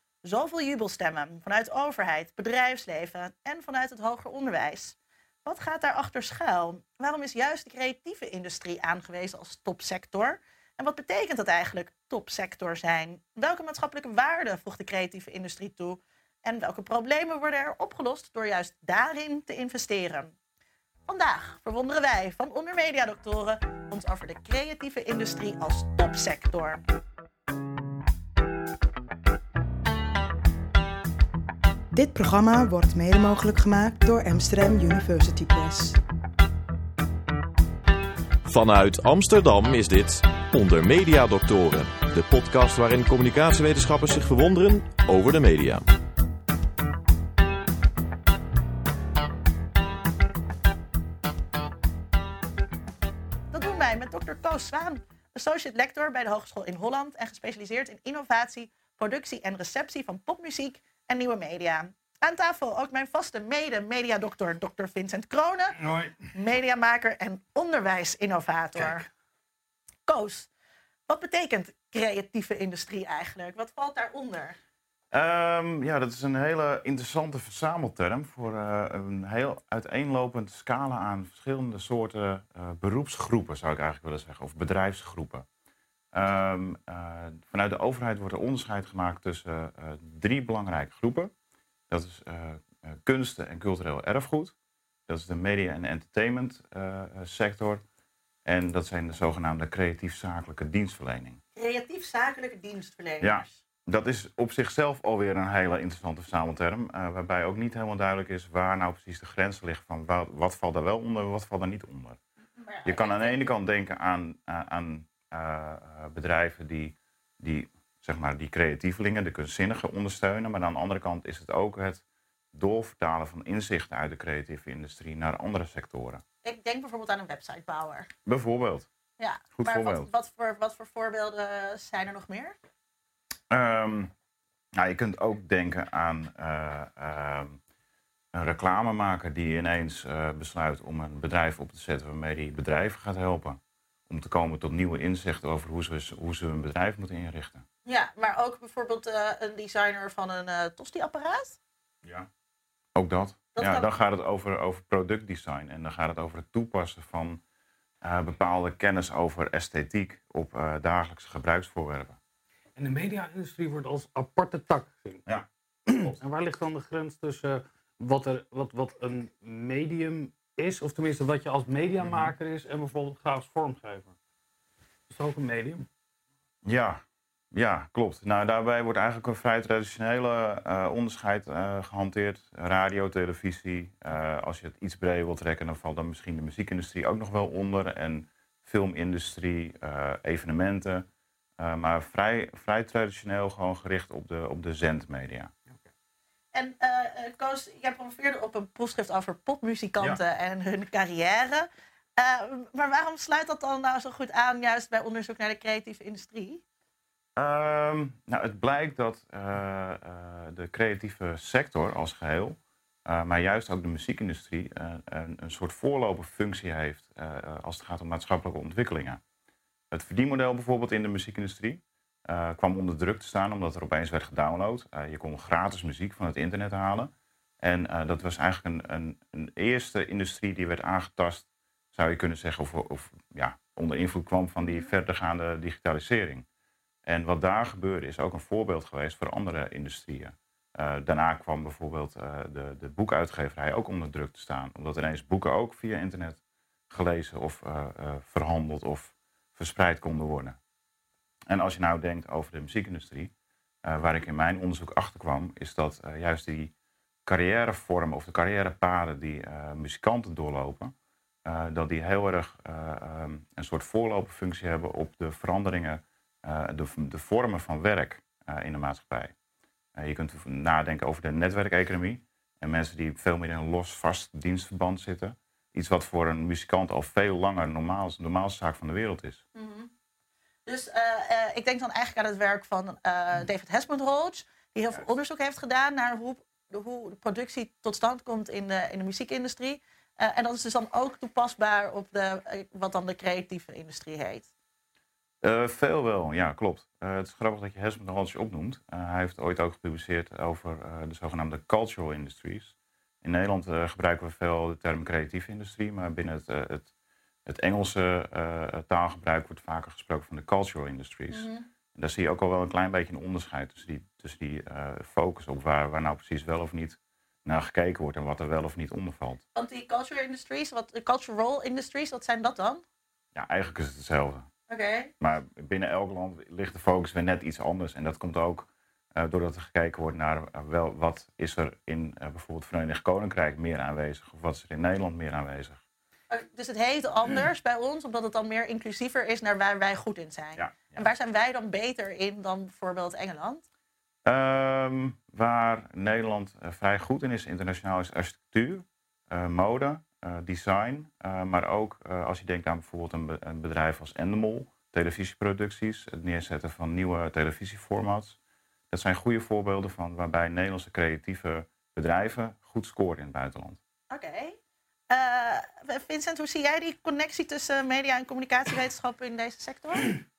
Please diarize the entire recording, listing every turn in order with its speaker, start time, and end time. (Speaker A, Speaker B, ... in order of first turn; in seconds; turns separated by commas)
Speaker A: 0.2-20.3, Speaker A: 21.1-26.8, Speaker B: 31.9-36.0, Speaker C: 38.5-45.8, Speaker A: 53.5-65.8, Speaker D: 65.8-66.2, Speaker A: 66.3-69.0, Speaker A: 70.1-70.5, Speaker A: 71.1-74.6, Speaker E: 75.1-85.5, Speaker E: 86.1-91.3, Speaker E: 91.9-94.5, Speaker E: 95.1-97.8, Speaker E: 98.4-101.4, Speaker A: 101.5-103.6, Speaker E: 103.2-112.2, Speaker A: 112.6-113.5, Speaker E: 112.8-126.2, Speaker A: 126.4-128.1, Speaker E: 128.2-128.9, Speaker A: 129.2-132.6, Speaker E: 129.5-130.1, Speaker E: 133.5-134.1, Speaker E: 134.8-137.6, Speaker E: 138.3-147.6, Speaker A: 147.8-151.6, Speaker E: 152.0-152.3, Speaker E: 152.9-157.4, Speaker A: 153.5-153.9, Speaker E: 158.0-162.2, Speaker D: 162.8-165.2, Speaker E: 165.3-166.2, Speaker D: 165.9-174.1, Speaker E: 172.0-172.3, Speaker D: 175.1-175.8, Speaker E: 176.6-191.1, Speaker E: 191.6-195.5, Speaker A: 196.5-206.6, Speaker E: 207.4-219.2, Speaker E: 219.9-236.4, Speaker A: 234.6-234.9, Speaker E: 237.1-250.6, Speaker E: 251.5-253.3, Speaker E: 253.8-256.7, Speaker E: 257.2-260.9, Speaker E: 261.4-269.3, Speaker E: 269.9-279.4, Speaker A: 279.5-279.9, Speaker A: 280.6-294.5, Speaker E: 295.4-306.9, Speaker E: 307.4-319.4, Speaker A: 311.3-311.6, Speaker A: 319.5-322.8, Speaker E: 323.3-324.5, Speaker A: 324.7-325.1, Speaker E: 325.2-335.8, Speaker A: 336.3-343.6, Speaker E: 340.6-341.0, Speaker E: 344.2-358.4, Speaker E: 358.9-363.8, Speaker A: 364.1-364.6, Speaker A: 365.1-370.1